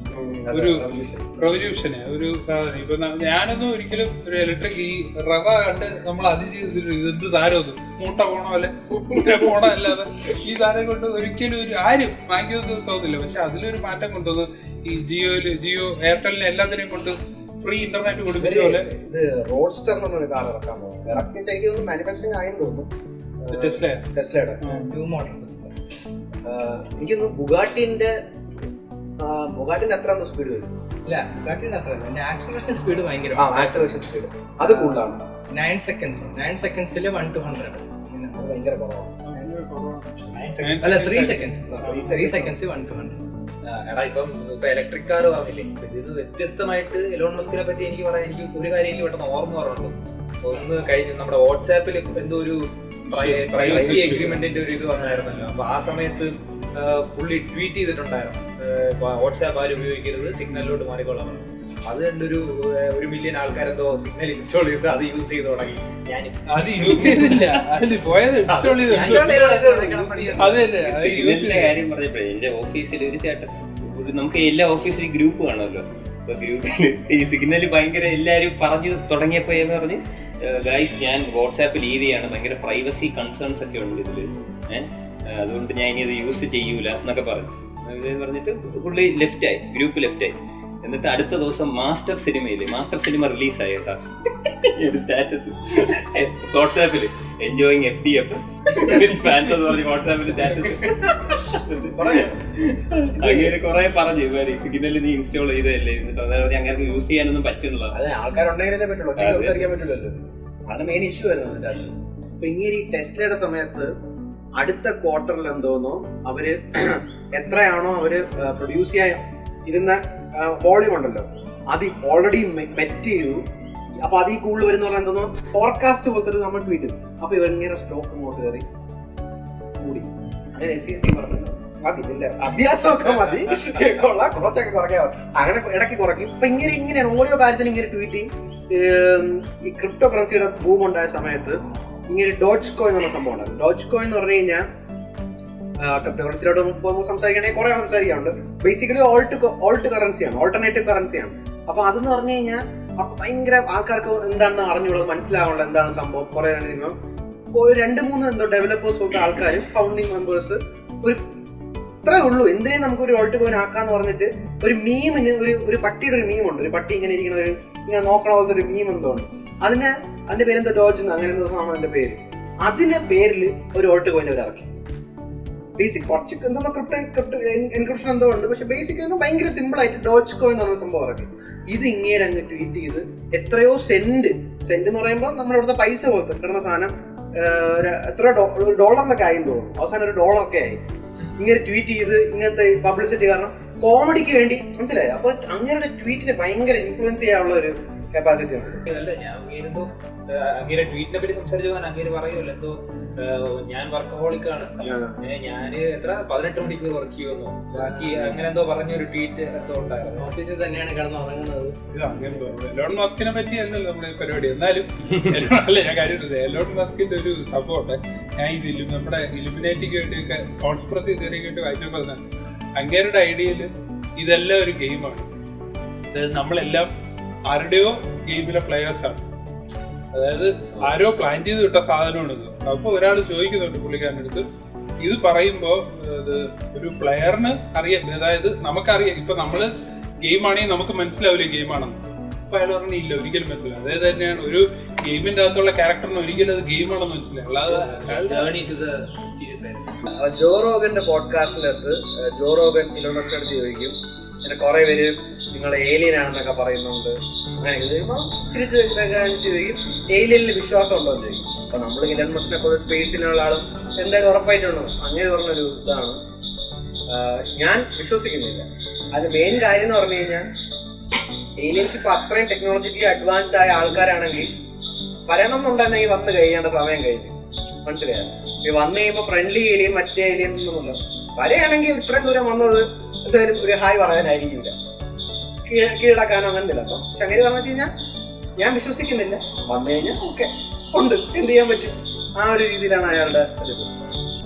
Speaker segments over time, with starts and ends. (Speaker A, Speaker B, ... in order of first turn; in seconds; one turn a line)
Speaker A: 0.1-1.3
Speaker B: 0.5-0.8
Speaker B: 1.4-18.8
Speaker A: 18.4-24.6
Speaker B: 23.5-24.0
Speaker B: 24.6-24.9
Speaker C: 24.6-25.7
Speaker A: 26.4-28.2
Speaker A: 29.2-30.7
Speaker C: 31.1-34.0
Speaker A: 33.4-35.2
Speaker C: 34.6-38.4
Speaker A: 38.4-39.2
Speaker B: 39.2-42.1
Speaker D: 40.3-41.2
Speaker C: 40.8-43.2
Speaker A: 41.7-42.5
Speaker D: 43.6-67.4
Speaker B: 53.1-54.5
Speaker B: 66.5-69.8
Speaker D: 68.5-71.3
Speaker C: 68.9-70.3
Speaker A: 69.9-70.3
Speaker B: 70.3-71.8
Speaker E: 71.1-108.0
Speaker A: 102.0-102.4
Speaker A: 103.2-103.5
Speaker A: 107.9-113.9
Speaker E: 109.2-109.7
Speaker A: 114.6-123.4
Speaker A: 124.0-128.6
Speaker A: 129.8-144.7
Speaker A: 145.8-156.9
Speaker A: 157.5-161.2
Speaker A: 162.0-174.7
Speaker A: 175.8-190.8
Speaker A: 191.4-198.8
Speaker D: 198.8-210.3
Speaker A: 204.8-205.2
Speaker C: 210.2-211.8
Speaker B: 211.9-222.2
Speaker B: 222.8-225.3
Speaker B: 226.1-226.9
Speaker B: 227.5-229.2
Speaker B: 230.1-234.4
Speaker B: 235.0-239.7
Speaker B: 240.2-248.5
Speaker D: 247.6-250.0
Speaker A: 250.1-266.2
Speaker A: 267.1-270.4
Speaker A: 271.6-274.5
Speaker A: 275.3-284.8
Speaker A: 285.6-287.9
Speaker A: 288.6-294.1